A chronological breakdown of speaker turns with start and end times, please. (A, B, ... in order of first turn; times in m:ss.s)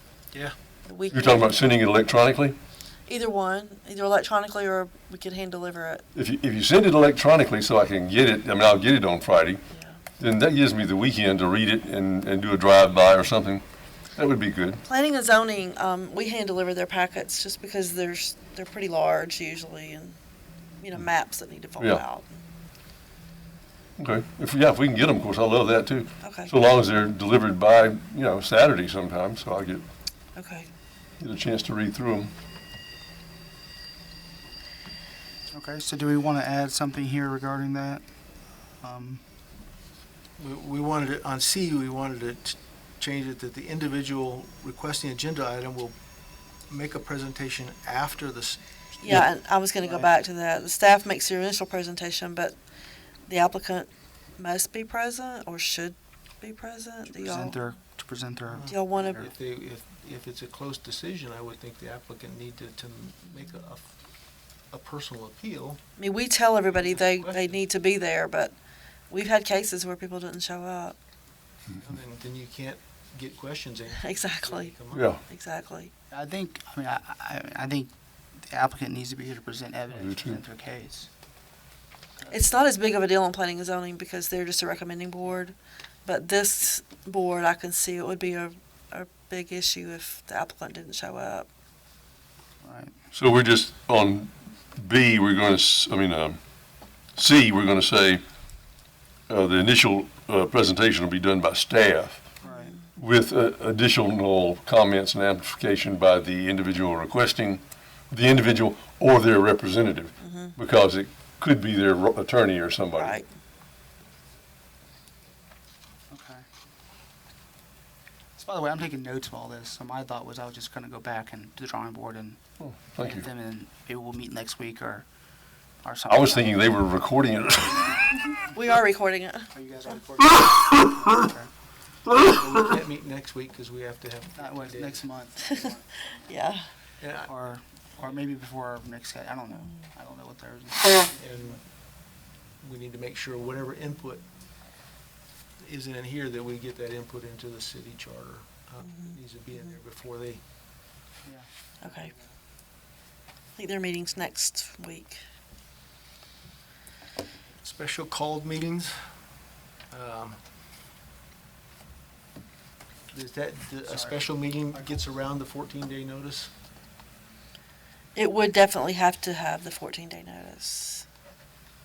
0:00.9-0:01.7 A
0:01.1-0:02.6 B
0:03.1-0:06.0 A
0:06.2-0:09.6 B
0:10.2-0:13.6 B
0:14.2-0:14.8 B
0:14.8-0:20.2 A
0:20.8-0:22.4 A
0:24.0-0:29.9 B
0:26.2-0:26.5 A
0:30.4-0:30.7 A
0:31.2-0:32.3 B
0:35.5-0:38.0 C
0:38.8-0:39.2 C
0:40.4-0:46.0 D
0:46.7-0:49.3 D
0:49.0-0:52.6 A
0:49.8-0:50.1 D
0:53.3-0:57.6 A
0:57.2-0:59.3 C
0:58.5-1:05.8 D
0:58.7-0:59.1 A
1:06.0-1:08.5 A
1:06.7-1:07.6 D
1:09.1-1:11.0 A
1:11.8-1:15.1 D
1:13.9-1:15.9 A
1:14.9-1:15.2 B
1:16.1-1:21.1 C
1:20.0-1:20.4 B
1:22.2-1:22.5 C
1:22.3-1:31.5 A
1:32.6-1:32.9 C
1:33.1-1:36.4 B
1:37.2-1:38.2 B
1:39.3-1:42.3 B
1:42.4-1:42.8 A
1:42.4-1:42.8 C
1:43.0-1:53.2 B
1:50.2-1:50.5 A
1:53.0-1:53.3 A
1:56.1-1:56.4 C
1:58.4-2:02.4 C
2:02.6-2:03.3 B
2:03.0-2:05.1 C
2:05.8-2:06.7 C
2:06.1-2:08.0 B
2:08.5-2:09.5 A
2:09.5-2:11.5 C
2:12.1-2:15.0 D
2:14.4-2:16.3 C
2:16.3-2:16.7 A
2:17.0-2:17.3 D
2:17.2-2:21.6 C
2:21.2-2:21.7 D
2:22.6-2:24.2 D
2:25.6-2:30.4 D
2:31.2-2:32.3 C
2:31.8-2:32.1 A
2:33.6-2:35.2 A
2:37.6-2:39.0 D
2:39.9-2:40.4 D
2:43.1-2:46.5 D
2:43.8-2:45.2 C
2:48.2-2:51.1 A